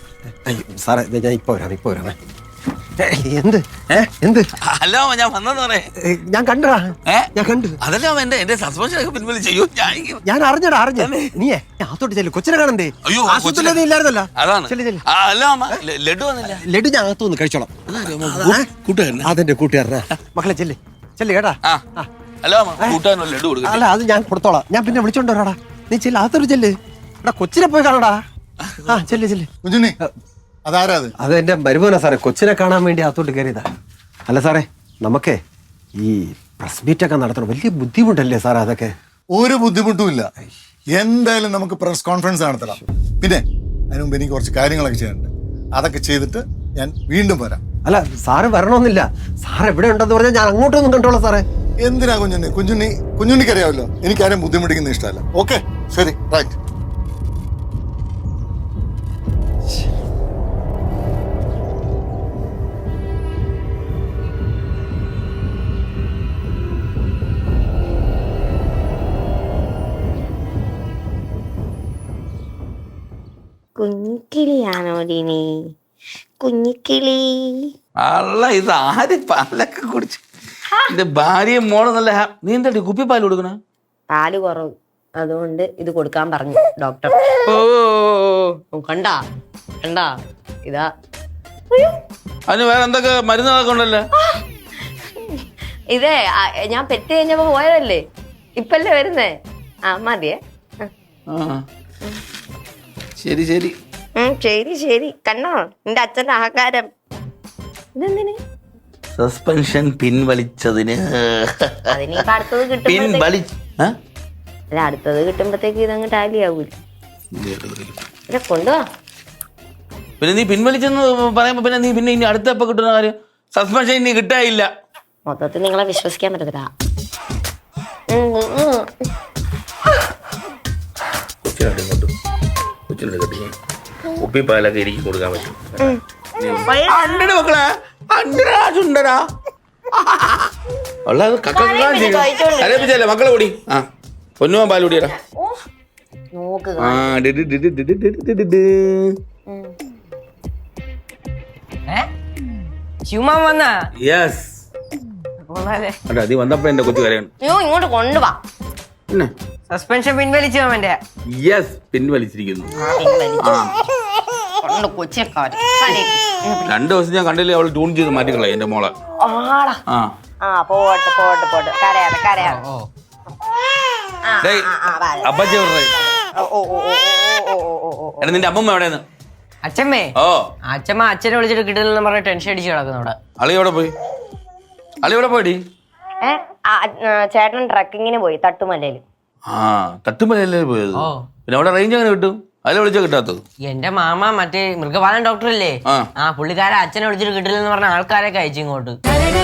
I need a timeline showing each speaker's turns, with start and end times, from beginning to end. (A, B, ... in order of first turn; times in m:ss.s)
0:00.4-0:02.2 A
0:03.0-0:04.5 A
0:04.6-0:05.9 B
0:06.0-0:07.8 A
0:07.8-0:10.2 B
0:10.2-0:15.0 A
0:11.0-0:11.3 B
0:13.0-0:13.8 B
0:14.4-0:16.6 B
0:16.4-0:22.1 A
0:17.9-0:19.3 B
0:22.4-0:23.8 B
0:23.6-0:28.2 A
0:28.6-0:29.1 B
0:28.8-0:29.5 A
0:29.6-0:29.9 C
0:30.6-0:31.1 C
0:31.2-0:33.7 A
0:34.3-0:35.4 A
0:36.0-0:38.9 A
0:39.3-0:40.3 C
0:41.0-0:47.6 C
0:47.8-0:51.4 A
0:51.8-0:56.6 C
1:13.8-1:15.4 D
1:16.4-1:17.2 D
1:18.0-1:20.2 B
1:20.9-1:23.6 B
1:24.1-1:29.2 D
1:27.5-1:27.7 B
1:29.8-1:30.1 D
1:30.6-1:30.9 D
1:32.5-1:34.0 B
1:35.2-1:38.0 D
1:38.6-1:39.3 D
1:39.9-1:40.9 D
1:41.3-1:41.6 B
1:43.2-1:43.8 B
1:44.2-1:46.8 D
1:48.0-1:48.4 D
1:49.1-1:52.2 B
1:52.0-1:53.2 D
1:52.8-1:54.0 B
1:54.7-1:56.8 D
1:57.3-1:57.9 B
1:58.3-1:58.8 D
2:00.2-2:04.7 B
2:05.3-2:06.7 D
2:08.1-2:08.9 D
2:11.4-2:12.1 B
2:12.9-2:13.5 B
2:14.2-2:19.2 B
2:16.7-2:17.3 D
2:19.9-2:20.5 B
2:21.0-2:23.8 B
2:21.6-2:22.8 D
2:24.4-2:25.2 B
2:26.3-2:27.1 D
2:26.8-2:29.2 B
2:29.5-2:29.7 D
2:33.0-2:33.8 E
2:34.0-2:34.6 B
2:35.5-2:36.0 E
2:36.0-2:37.3 B
2:37.4-2:38.4 D
2:39.7-2:41.0 E
2:41.3-2:42.7 B
2:42.8-2:43.6 D
2:43.4-2:43.7 B
2:44.6-2:46.7 D
2:46.6-2:48.9 B
2:49.2-2:49.8 D
2:49.9-2:50.1 B
2:50.4-2:52.6 D
2:52.4-2:52.9 E
2:54.3-2:55.5 D
2:54.4-2:54.7 B
2:55.2-2:55.9 B
2:56.0-2:58.4 D
2:58.2-2:59.0 B
2:59.6-3:00.1 E
3:00.2-3:00.5 B
3:00.6-3:03.2 E
3:03.4-3:03.9 B
3:05.0-3:05.6 B
3:06.2-3:09.0 D
3:09.5-3:13.4 B
3:10.9-3:11.2 E
3:13.6-3:19.0 E